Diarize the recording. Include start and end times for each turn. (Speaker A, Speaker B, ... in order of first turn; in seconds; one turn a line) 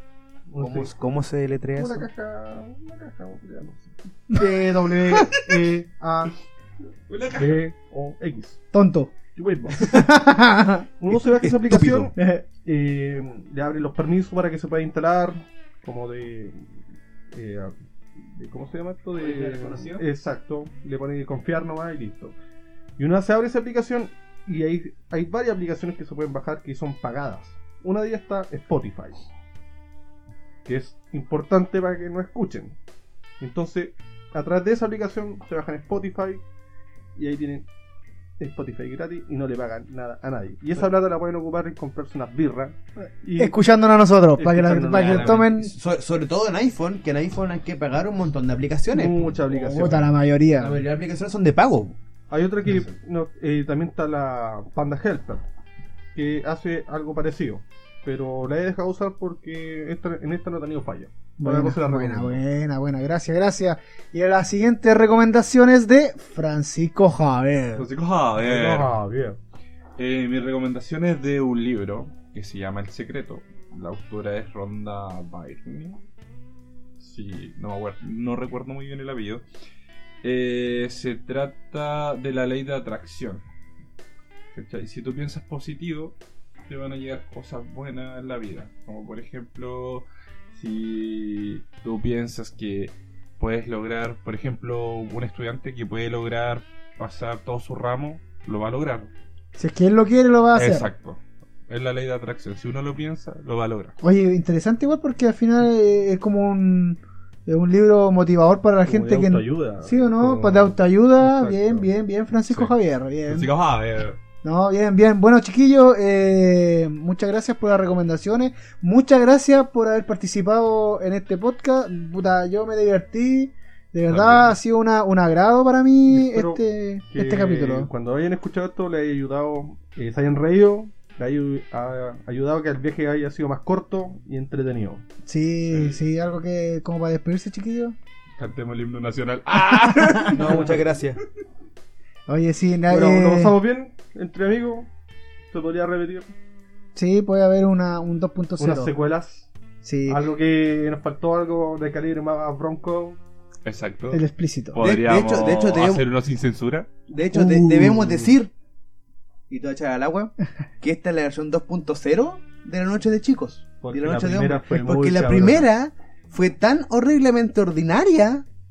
Speaker A: 0.5-0.9
Speaker B: 0.6-2.1
Speaker A: 1.7-6.4
Speaker C: 7.1-7.6
Speaker A: 7.3-8.6
Speaker D: 8.7-9.1
Speaker A: 9.4-9.8
Speaker B: 9.8-10.0
Speaker D: 9.8-10.9
Speaker A: 11.0-16.6
Speaker B: 11.1-12.1
Speaker D: 12.2-12.4
Speaker A: 17.3-22.4
Speaker B: 19.2-20.0
Speaker A: 23.0-29.3
Speaker A: 30.7-32.8
Speaker A: 33.4-36.4
Speaker A: 37.2-37.7
Speaker A: 38.4-43.5
Speaker D: 43.4-45.7
Speaker A: 44.4-45.5
Speaker B: 44.9-49.4
Speaker A: 48.9-50.1
Speaker D: 49.5-50.8
Speaker B: 50.6-52.0
Speaker A: 52.3-55.4
Speaker A: 56.1-62.4
Speaker D: 61.4-67.9
Speaker C: 67.8-68.9
Speaker A: 68.3-69.4
Speaker C: 70.0-76.0
Speaker C: 77.0-79.5
Speaker C: 80.2-83.4
Speaker C: 84.5-99.1
Speaker D: 99.6-100.9
Speaker C: 100.5-103.9
Speaker D: 104.0-113.5
Speaker A: 108.8-111.9
Speaker C: 112.5-112.7
Speaker C: 113.3-114.2
Speaker D: 114.4-127.9
Speaker C: 124.1-124.5
Speaker A: 126.1-135.1
Speaker D: 135.3-138.0
Speaker C: 135.7-136.0
Speaker C: 138.4-140.8
Speaker D: 139.9-140.3
Speaker B: 140.3-141.2
Speaker A: 140.4-140.8
Speaker D: 142.3-143.6
Speaker A: 142.9-144.9
Speaker A: 145.5-146.3
Speaker D: 146.9-148.9
Speaker A: 148.6-149.5
Speaker D: 149.8-150.2
Speaker A: 150.1-153.2
Speaker C: 153.7-156.9
Speaker D: 154.1-154.8
Speaker B: 154.8-156.1
Speaker B: 157.1-158.5
Speaker A: 157.5-158.3
Speaker B: 159.5-168.5
Speaker A: 163.8-165.7